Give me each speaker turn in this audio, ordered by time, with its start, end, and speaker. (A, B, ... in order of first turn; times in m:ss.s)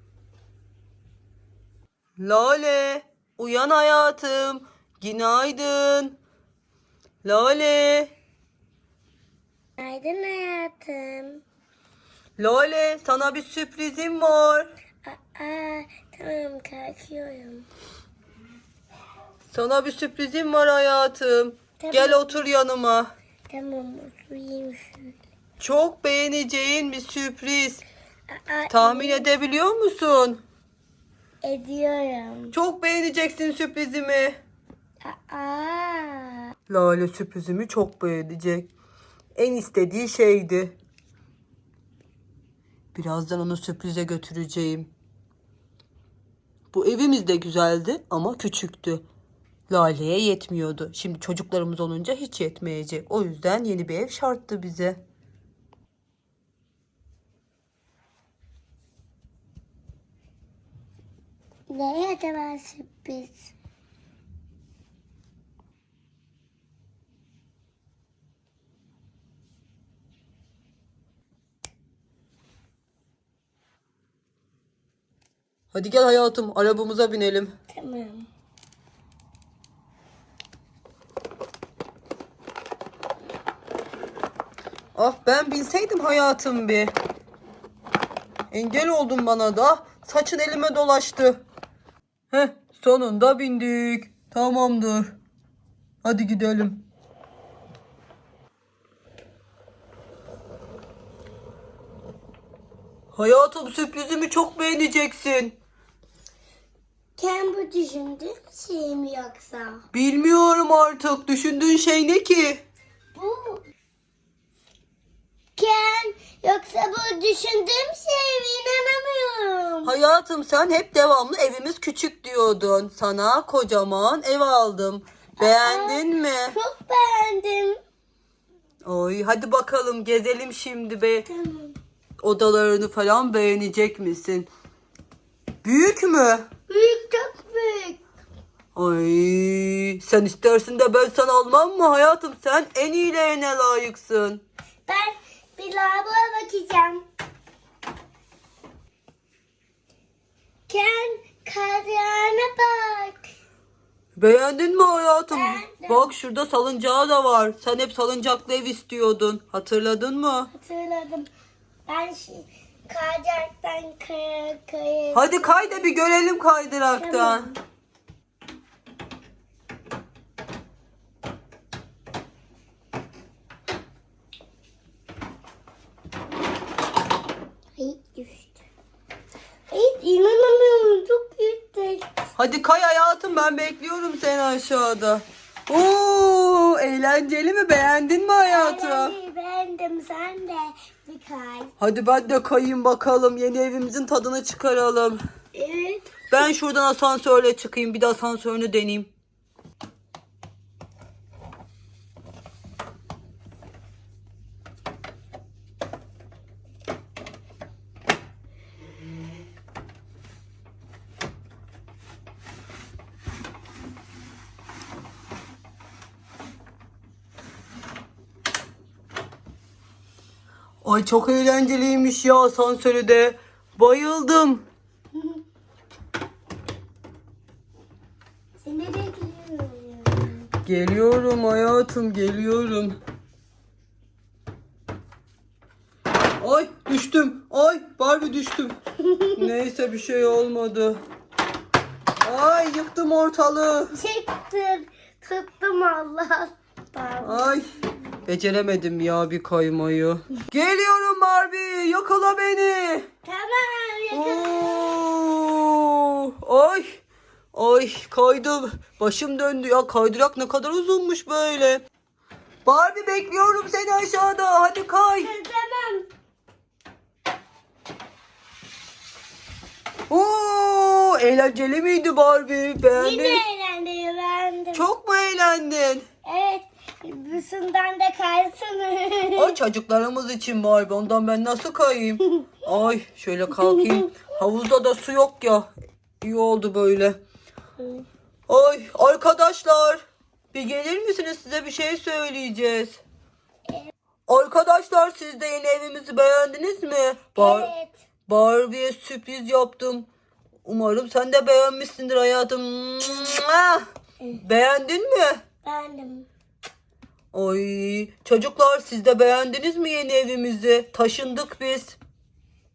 0:02.2-0:06.2 A
0:07.2-0:08.1 A
0:09.8-0:11.4 B
0:12.4-0:14.7 A
0:15.0-0:17.6 B
0:19.5-0:23.1 A
0:21.8-0:22.4 B
0:23.5-0:25.1 B
0:25.6-0:27.8 A
0:28.3-0:29.3 B
0:28.7-0:30.4 A
0:31.4-0:32.5 B
0:32.5-0:34.4 A
0:35.0-0:36.5 B
0:36.7-0:38.7 A
0:39.3-0:40.8 A
0:42.9-0:44.9 A
0:46.7-0:49.0 A
0:49.7-0:55.0 A
1:01.7-1:03.5 B
1:15.7-1:17.5 A
1:17.7-1:18.3 B
1:24.9-1:26.9 A
1:28.5-1:31.4 A
1:32.3-1:35.2 A
1:36.0-1:36.8 A
1:43.1-1:45.6 A
1:47.2-1:49.8 B
1:49.9-1:52.6 A
1:53.1-1:53.6 B
1:55.6-1:59.9 B
1:59.8-2:06.6 A
2:05.4-2:07.8 B
2:08.8-2:11.2 A
2:11.2-2:11.8 B
2:12.2-2:14.5 A
2:15.6-2:16.4 A
2:16.7-2:18.0 B
2:18.7-2:24.4 A
2:24.9-2:27.0 B
2:30.7-2:33.2 B
2:34.2-2:40.5 A
2:35.3-2:36.1 B
2:40.5-2:41.3 B
2:41.8-2:45.9 B
2:45.1-2:47.5 A
2:47.0-2:47.6 B
2:57.8-2:58.5 B
2:59.7-3:02.1 B
3:02.4-3:09.1 A
3:08.4-3:11.7 B
3:11.8-3:15.2 A
3:15.5-3:16.2 B
3:16.3-3:19.1 A
3:40.8-3:44.6 A
3:48.6-3:50.5 B
3:50.6-3:53.0 A
3:56.4-3:58.8 A
3:59.0-3:59.4 B
3:59.3-4:01.0 A
4:02.2-4:03.9 A
4:03.9-4:07.6 B
4:07.2-4:07.6 A
4:08.2-4:13.0 A
4:13.2-4:15.0 B
4:14.1-4:17.0 A
4:17.5-4:21.8 A
4:22.6-4:25.3 A
4:25.2-4:26.1 B
4:30.1-4:33.4 A
4:32.9-4:34.8 B
4:34.7-4:36.0 A
4:36.2-4:39.5 B
4:39.4-4:45.7 A
4:43.5-4:44.1 B
4:46.2-4:47.2 A
4:47.8-4:48.0 B
4:48.5-4:53.0 A
4:54.3-4:57.7 A
4:57.4-4:58.0 B
4:58.3-5:00.1 A
5:00.6-5:03.8 A
5:04.4-5:05.4 A
5:05.6-5:06.3 B
5:07.3-5:12.0 A